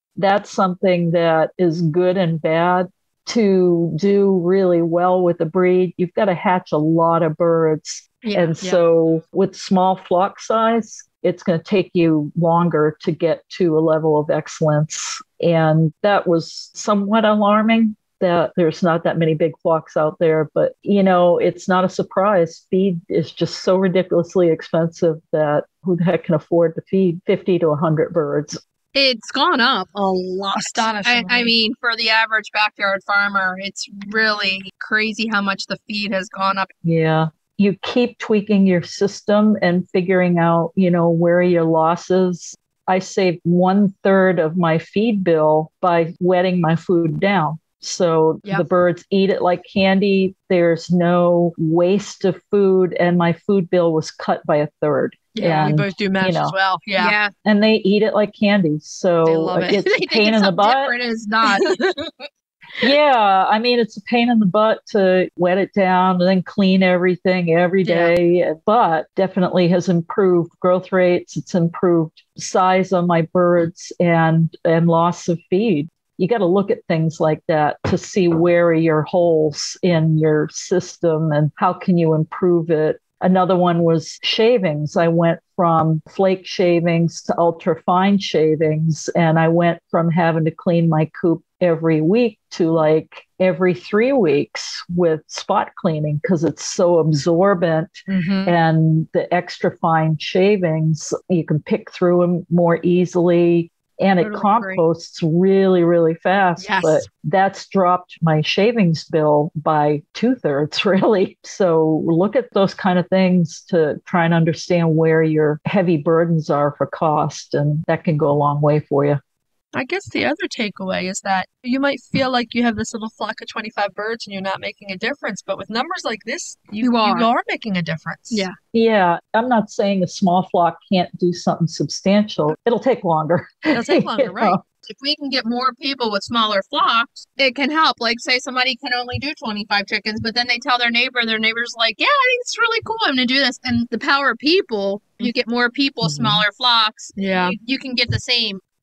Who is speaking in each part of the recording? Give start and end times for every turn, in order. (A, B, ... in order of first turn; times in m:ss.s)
0:00.2-0:28.6 A
0:08.2-0:08.8 B
0:28.9-0:36.7 B
0:30.6-0:31.5 C
0:36.8-0:56.6 A
0:55.4-0:57.2 C
0:55.4-0:55.6 B
0:57.0-0:57.3 B
0:57.4-1:01.0 A
0:59.2-0:59.8 C
0:59.7-1:01.8 B
1:01.5-1:02.1 C
1:02.8-1:59.2 A
1:07.8-1:08.1 C
1:38.1-1:38.6 C
1:44.2-1:44.8 B
1:46.6-1:47.1 C
1:59.7-2:08.5 C
2:06.8-2:07.3 B
2:08.3-2:08.6 B
2:08.7-2:14.6 A
2:13.7-2:14.6 C
2:14.8-2:28.6 B
2:26.1-2:26.4 A
2:27.2-2:27.6 C